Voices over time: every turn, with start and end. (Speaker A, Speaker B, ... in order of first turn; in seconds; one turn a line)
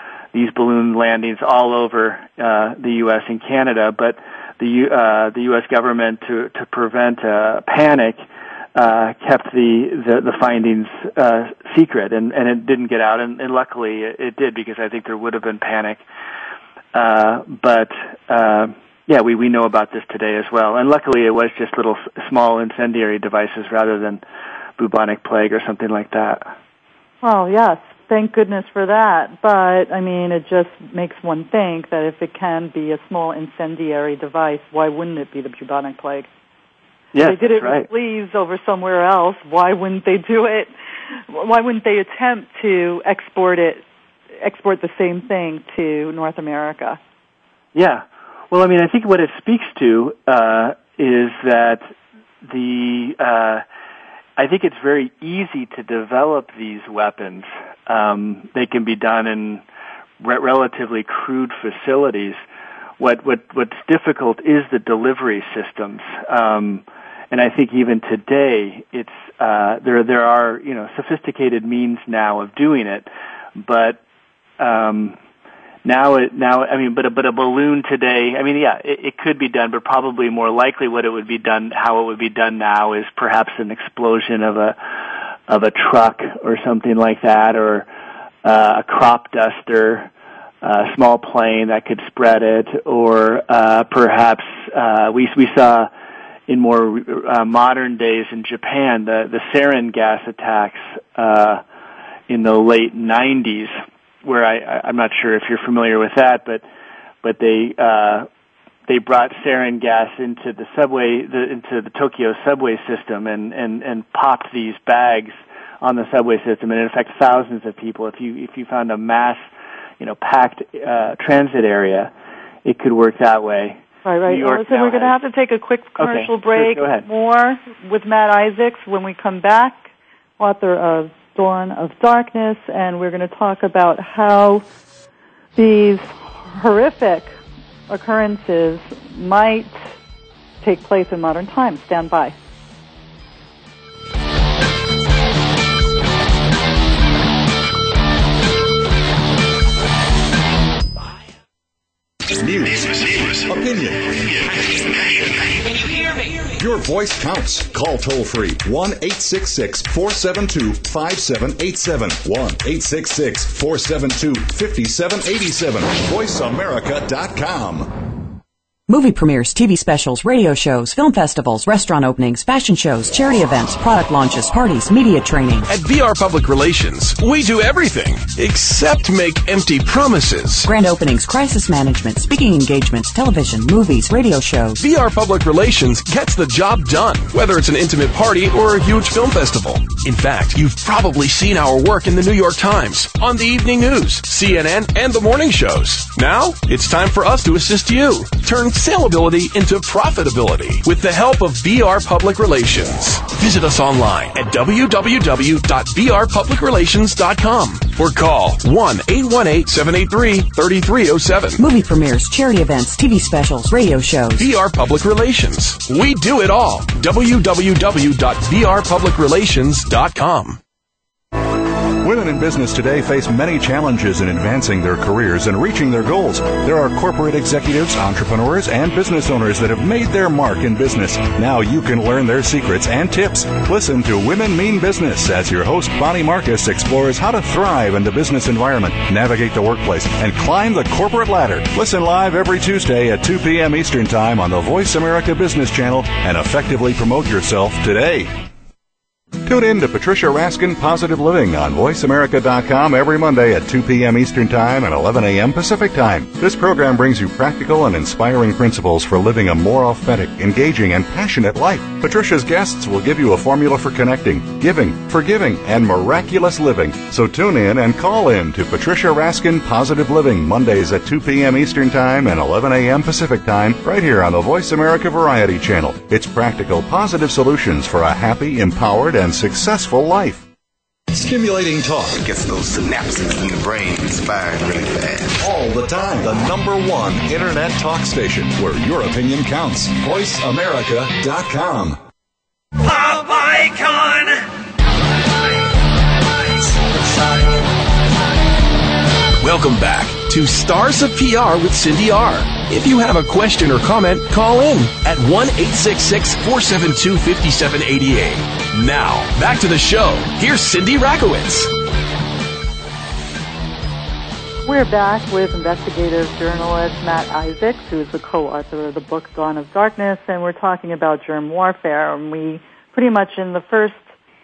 Speaker A: 0.3-8.2
Speaker A: 8.8-16.0
Speaker A: 16.9-24.2
Speaker A: 24.8-26.5
Speaker B: 27.2-36.3
Speaker A: 37.1-37.9
Speaker B: 37.2-43.8
Speaker B: 44.4-47.0
Speaker A: 47.7-51.9
Speaker A: 52.4-53.6
Speaker A: 54.4-59.6
Speaker A: 60.2-62.4
Speaker A: 63.0-74.0
Speaker A: 74.6-75.2
Speaker A: 75.8-85.0
Speaker A: 85.5-87.9
Speaker A: 88.4-90.1
Speaker A: 90.6-95.9
Speaker A: 96.5-101.6
Speaker A: 102.3-106.6
Speaker A: 107.2-108.3
Speaker A: 108.9-119.5
Speaker A: 120.0-122.1
Speaker A: 122.7-125.2
Speaker B: 124.0-129.9
Speaker A: 126.0-127.1
Speaker B: 130.4-134.6
Speaker B: 135.6-137.3
Speaker B: 137.9-139.9
Speaker B: 140.6-142.3
Speaker C: 152.3-168.1
Speaker D: 168.9-175.7
Speaker E: 175.7-180.7
Speaker D: 180.6-184.8
Speaker E: 184.8-211.6
Speaker D: 211.6-214.5
Speaker E: 214.4-220.6
Speaker C: 222.0-248.4
Speaker C: 249.4-280.4
Speaker C: 281.1-282.2
Speaker F: 282.2-285.4
Speaker C: 285.4-292.0
Speaker A: 293.1-294.1
Speaker E: 299.4-311.7
Speaker B: 314.7-324.1